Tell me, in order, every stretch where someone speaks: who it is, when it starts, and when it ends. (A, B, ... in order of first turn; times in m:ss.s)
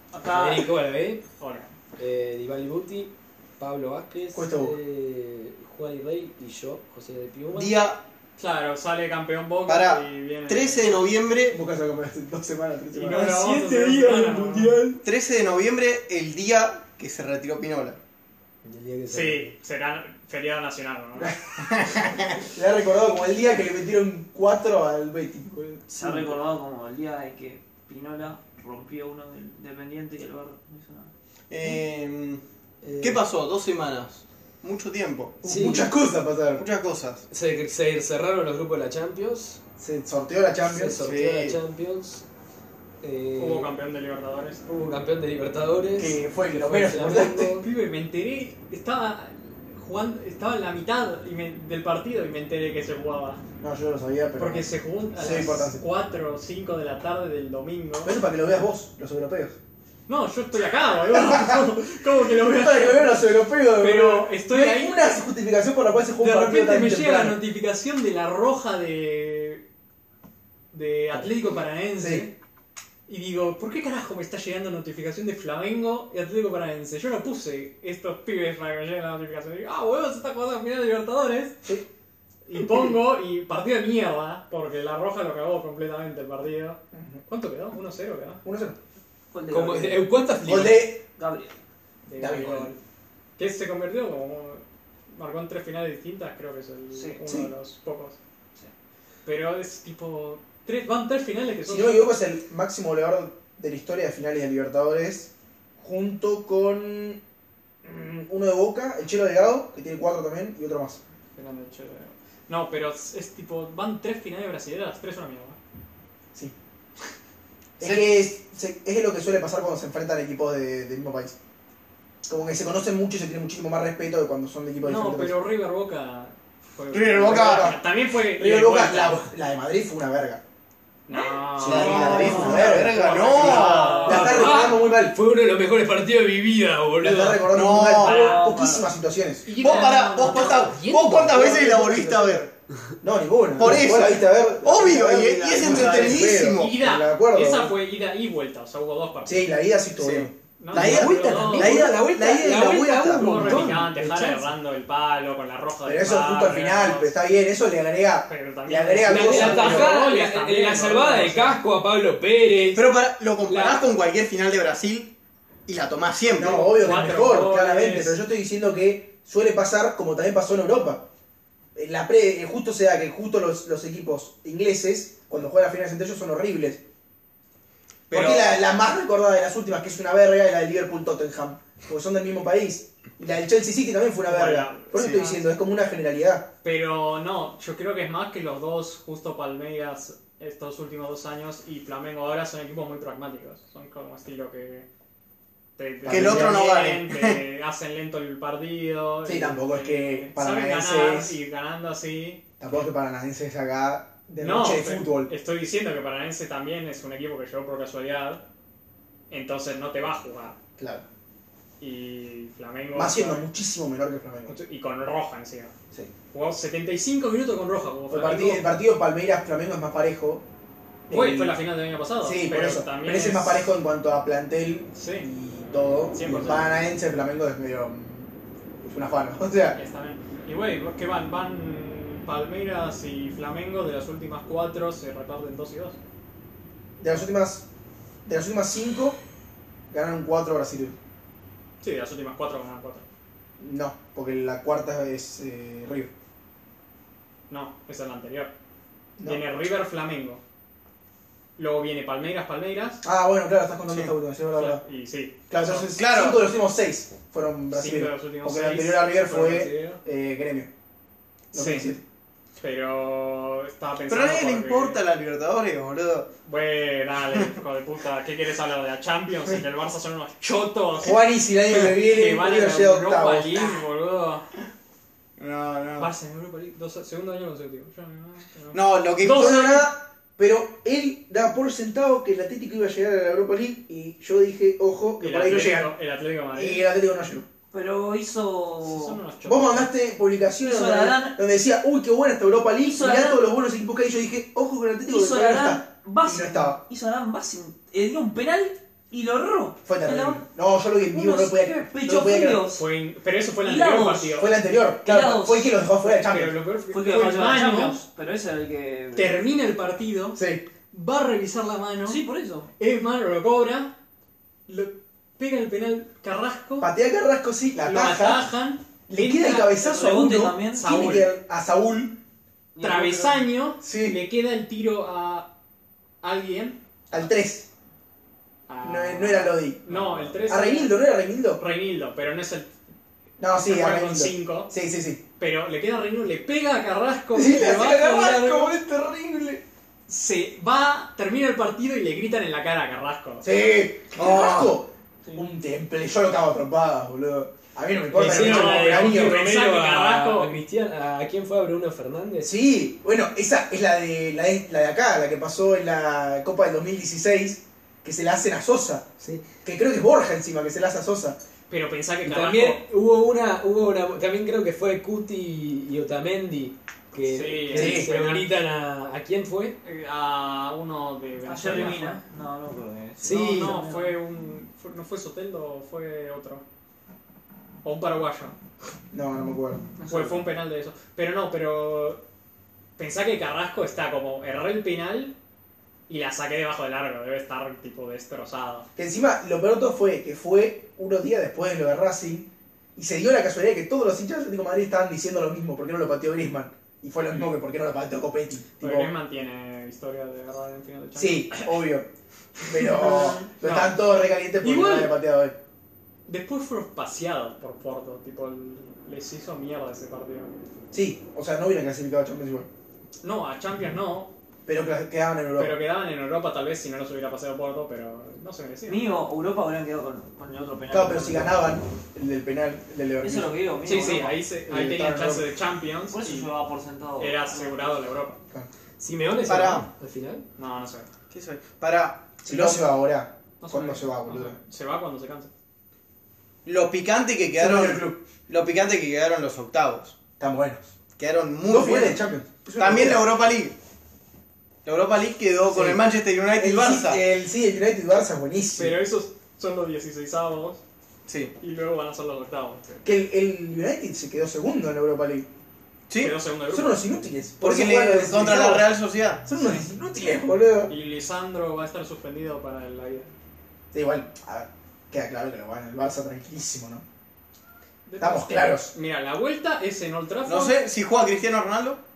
0:00.1-0:00.7 A
0:00.3-0:01.2 B
0:01.4-0:01.7 C
0:02.0-0:07.8 B
0:04.3-0:04.8 D
0:07.5-0:08.0 E
0:08.4-0:11.0 C
0:09.7-0:11.6 E
0:11.5-0:13.3 D
0:12.9-0:14.7 C
0:13.1-0:15.0 B
0:15.0-0:18.0 E
0:18.6-0:19.6 B
0:19.1-0:21.4 C
0:21.6-0:22.4 E
0:22.5-0:26.0 D
0:25.9-0:31.1 A
0:26.0-0:26.3 B
0:31.5-0:32.4 E
0:32.8-0:33.2 B
0:33.0-0:35.4 E
0:35.4-0:36.7 D
0:35.4-0:35.9 B
0:36.6-0:37.2 E
0:37.3-0:39.6 B
0:39.8-0:41.0 D
0:40.6-0:42.2 B
0:41.0-0:41.6 E
0:43.0-0:43.7 B
0:43.4-0:44.6 C
0:44.7-0:47.6 B
0:46.0-0:47.6 D
0:47.5-0:53.4 C
0:53.6-0:55.8 D
0:54.4-0:58.2 C
0:58.0-0:59.6 D
1:00.1-1:05.2 C
1:01.1-1:01.6 D
1:02.4-1:07.4 D
1:06.2-1:09.6 C
1:10.7-1:12.3 C
1:12.0-1:12.3 D
1:13.1-1:21.6 C
1:22.5-1:28.4 C
1:26.9-1:27.2 D
1:28.4-1:28.8 D
1:29.3-1:30.0 A
1:29.5-1:30.9 B
1:30.5-1:31.0 D
1:31.2-1:31.5 A
1:32.1-1:32.8 C
1:32.2-1:32.7 D
1:33.4-1:38.2 C
1:36.9-1:37.2 A
1:39.2-1:42.2 C
1:41.7-1:47.2 D
1:47.8-1:51.0 D
1:51.4-1:55.6 C
1:57.8-2:01.4 D
1:57.8-1:58.1 E
2:02.2-2:05.4 D
2:04.8-2:09.2 C
2:06.9-2:07.8 E
2:07.3-2:07.8 D
2:08.4-2:10.4 D
2:11.1-2:14.7 C
2:11.6-2:14.2 E
2:11.6-2:15.2 D
2:11.8-2:14.4 A
2:14.1-2:17.5 B
2:17.0-2:19.6 D
2:17.5-2:18.3 E
2:18.0-2:18.9 A
2:18.0-2:18.8 C
2:19.4-2:20.7 C
2:19.6-2:22.5 E
2:20.0-2:22.3 B
2:21.2-2:22.4 D
2:23.0-2:27.7 D
2:23.6-2:26.8 E
2:26.5-2:29.5 C
2:29.3-2:33.8 D
2:30.0-2:33.2 E
2:30.6-2:31.7 C
2:31.5-2:34.5 B
2:33.0-2:37.2 C
2:35.8-2:39.9 D
2:38.3-2:41.6 C
2:39.0-2:42.9 B
2:42.7-2:45.1 E
2:43.5-2:43.8 B
2:45.7-2:46.7 E
2:46.4-2:51.0 D
2:46.6-2:48.2 C
2:51.8-2:56.8 D
2:58.1-2:58.6 E
2:58.1-3:06.5 D
3:04.2-3:05.5 C
3:06.6-3:14.9 C
3:15.8-3:22.4 C
3:16.0-3:16.6 D
3:16.1-3:17.4 E
3:19.2-3:21.4 D
3:22.6-3:25.3 D
3:24.4-3:28.4 C
3:29.3-3:30.6 C
3:30.8-3:31.0 D
3:31.8-3:33.5 C
3:33.0-3:34.6 D
3:34.5-3:35.7 C
3:36.3-3:38.8 C
3:38.1-3:40.4 D
3:41.1-3:41.6 D
3:41.1-3:43.7 C
3:42.2-3:49.8 D
3:45.0-3:45.3 C
3:46.2-3:46.7 C
3:49.8-3:56.0 C
3:57.0-3:57.7 D
3:58.3-3:59.2 D
3:59.9-4:01.0 D
4:01.8-4:03.1 C
4:03.6-4:06.1 D
4:07.5-4:08.5 C
4:09.2-4:10.4 C
4:11.6-4:13.0 C
4:13.0-4:14.8 D
4:14.5-4:15.9 C
4:15.5-4:20.7 D
4:16.0-4:16.4 E
4:17.7-4:20.0 C
4:21.5-4:22.0 D
4:21.5-4:21.9 C
4:22.6-4:25.0 C
4:24.1-4:26.3 E
4:26.5-4:34.5 C
4:31.0-4:33.8 D
4:35.4-4:36.1 E
4:36.0-4:39.9 C
4:38.7-4:39.5 E
4:39.2-4:45.9 D
4:45.2-4:46.8 C
4:46.5-4:47.5 D
4:47.7-4:49.2 A
4:48.8-4:49.9 C
4:49.4-4:56.8 D
4:50.6-4:51.4 A
4:52.9-4:53.5 A
4:55.1-5:00.4 A
4:59.8-5:02.7 D
5:01.1-5:02.8 A
5:02.8-5:04.6 C
5:03.6-5:04.4 A
5:04.4-5:06.6 D
5:05.0-5:05.8 A
5:06.0-5:08.0 C
5:06.9-5:09.4 A
5:09.2-5:12.2 C
5:10.4-5:10.6 D
5:12.0-5:12.7 A
5:12.8-5:13.9 C
5:14.7-5:16.9 C
5:16.8-5:18.5 D
5:17.8-5:18.9 C
5:19.1-5:22.2 D
5:19.1-5:20.9 A
5:20.8-5:21.3 C
5:22.8-5:23.4 A
5:22.8-5:25.5 C
5:23.8-5:24.2 D
5:26.2-5:26.8 C
5:27.1-5:27.7 D
5:28.7-5:31.0 C
5:28.8-5:31.6 D
5:31.6-5:32.7 C
5:33.4-5:35.2 D
5:33.5-5:34.7 C
5:35.4-5:38.8 C
5:37.3-5:39.6 D
5:40.1-5:43.5 C
5:43.4-5:49.4 D
5:44.2-5:44.7 E
5:48.1-5:52.6 B
5:48.2-5:50.6 C
5:52.4-5:59.1 D
5:59.2-5:59.4 B
5:59.6-6:01.4 D
6:01.7-6:02.8 C
6:02.2-6:09.8 B
6:07.2-6:08.5 C
6:07.7-6:08.1 D
6:09.8-6:12.2 C
6:11.4-6:14.2 A
6:13.2-6:13.8 B
6:13.2-6:16.6 C
6:17.8-6:18.6 C
6:19.1-6:19.9 D
6:20.0-6:20.4 A
6:20.1-6:22.2 C
6:23.0-6:25.3 C
6:26.1-6:28.9 C
6:29.0-6:39.1 D
6:38.8-6:41.8 C
6:41.2-6:42.1 D
6:42.6-6:45.6 D
6:42.7-6:44.0 C
6:44.6-6:45.1 C
6:46.3-6:50.5 C
6:50.9-6:52.7 D
6:53.2-6:54.3 C
6:54.7-6:55.8 D
6:55.6-6:59.1 C
6:58.9-7:01.6 A
7:00.9-7:05.5 D
7:03.2-7:04.4 A
7:03.8-7:06.5 C
7:06.1-7:08.0 A
7:07.2-7:08.4 C
7:09.0-7:10.4 B
7:09.5-7:09.9 E
7:10.6-7:11.1 C
7:11.3-7:12.8 E
7:12.4-7:14.6 D
7:13.6-7:15.5 C
7:16.6-7:20.2 E
7:17.6-7:18.2 D
7:20.4-7:20.9 D
7:21.2-7:22.2 E
7:21.6-7:23.2 D
7:22.8-7:23.8 E
7:24.8-7:27.2 E
7:25.7-7:29.0 D
7:28.8-7:30.8 C
7:31.3-7:31.5 E
7:31.6-7:33.0 C
7:33.0-7:35.5 D
7:36.1-7:36.4 E
7:36.2-7:37.0 C
7:36.7-7:39.0 D
7:37.6-7:39.4 E
7:39.5-7:40.9 D
7:39.5-7:39.8 C
7:40.9-7:43.3 C
7:43.9-7:47.0 D
7:48.1-7:50.8 C
7:48.2-7:48.9 D
7:50.5-7:52.0 E